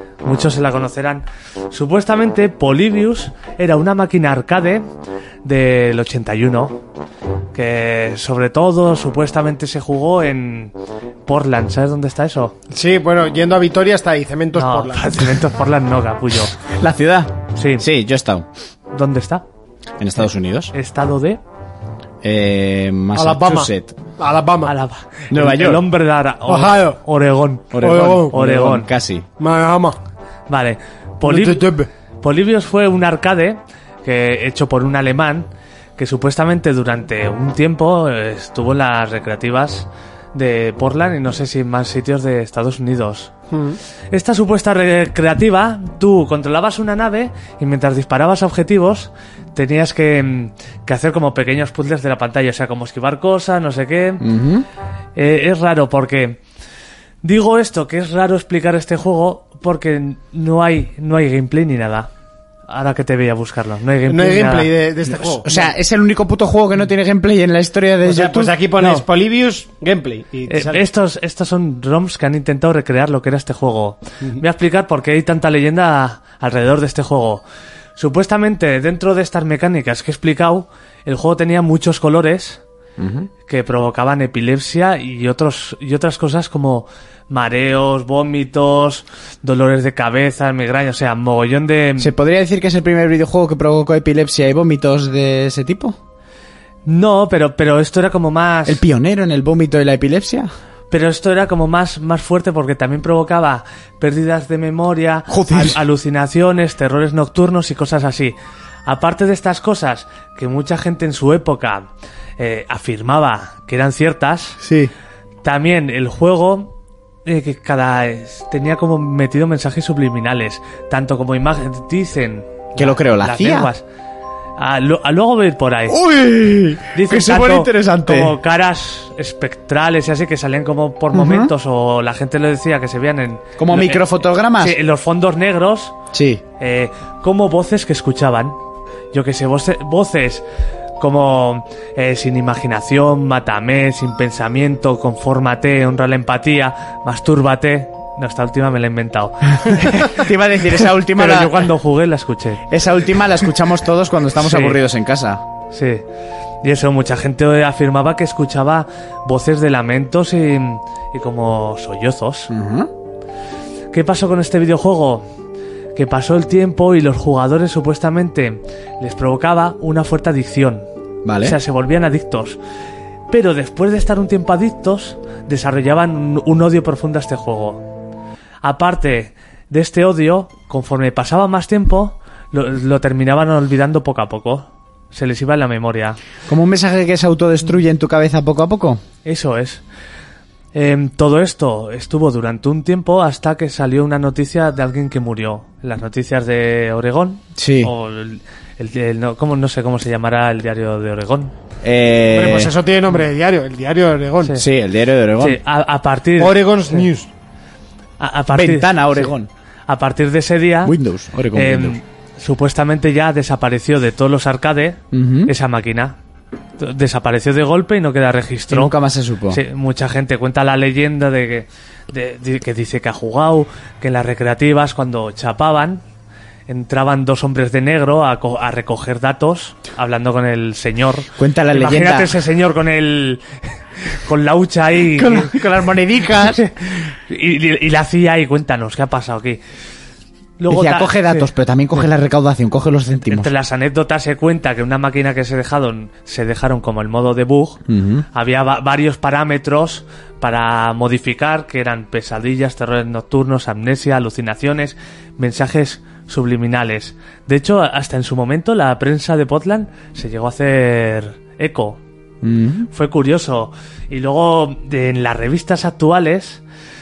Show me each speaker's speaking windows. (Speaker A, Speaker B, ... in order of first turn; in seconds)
Speaker A: 0.2-4.8, 5.4-6.8, 7.5-10.7, 11.3-12.6, 14.6-16.5, 17.6-17.9, 18.9-19.4, 20.7-21.4, 24.7-28.9, 30.5-31.7, 32.2-43.3, 44.1-54.2, 55.2-56.4, 57.2-62.1, 62.7-64.7, 70.5-77.4, 78.0-82.6, 83.5-92.1, 96.8-98.8, 100.9-108.3, 108.9-114.6, 115.4-116.7, 117.3-123.8, 124.6-126.0, 126.9-135.9, 136.6-138.6, 139.1-140.4, 141.0-150.2, 151.1-152.7, 154.4-154.8, 155.7-156.1, 156.6-162.5, 163.9-165.3, 165.9-170.9, 171.4-172.6, 173.3-177.8, 178.6-186.2, 189.2-189.8, 190.7-201.5, 205.4-207.1, 208.2-209.3, 209.9-210.9, 211.5-216.2, 216.8-218.9, 219.5-226.0, 226.7-233.4, 234.1-235.6, 236.4-239.6, 240.6-241.5, 243.3-247.8, 248.3-262.0, 262.9-266.6
Speaker B: 12.7-15.3, 23.2-24.7, 26.5-27.0, 27.8-28.4, 29.4-30.0, 31.3-31.9, 43.5-43.8, 64.1-65.7, 68.0-70.8, 202.3-204.6, 206.4-207.3
Speaker C: 16.8-18.5, 20.0-20.7, 22.2-23.9, 25.3-25.9, 27.7-29.3, 54.2-54.7, 65.4-68.5, 83.0-83.3, 92.0-96.0, 98.7-100.5, 105.3-105.8, 114.6-114.9, 122.8-123.7, 125.9-128.4, 131.1-131.5, 133.6-134.8, 136.1-136.4, 149.8-151.7, 152.7-155.4, 162.5-162.9, 171.2-171.6, 186.5-189.0, 197.6-197.9, 201.8-202.7, 204.6-205.6, 208.5-209.5, 210.8-212.0, 215.1-215.5, 218.7-219.6, 231.4-232.3, 235.1-236.6, 240.7-243.5, 247.9-248.3, 262.4-262.9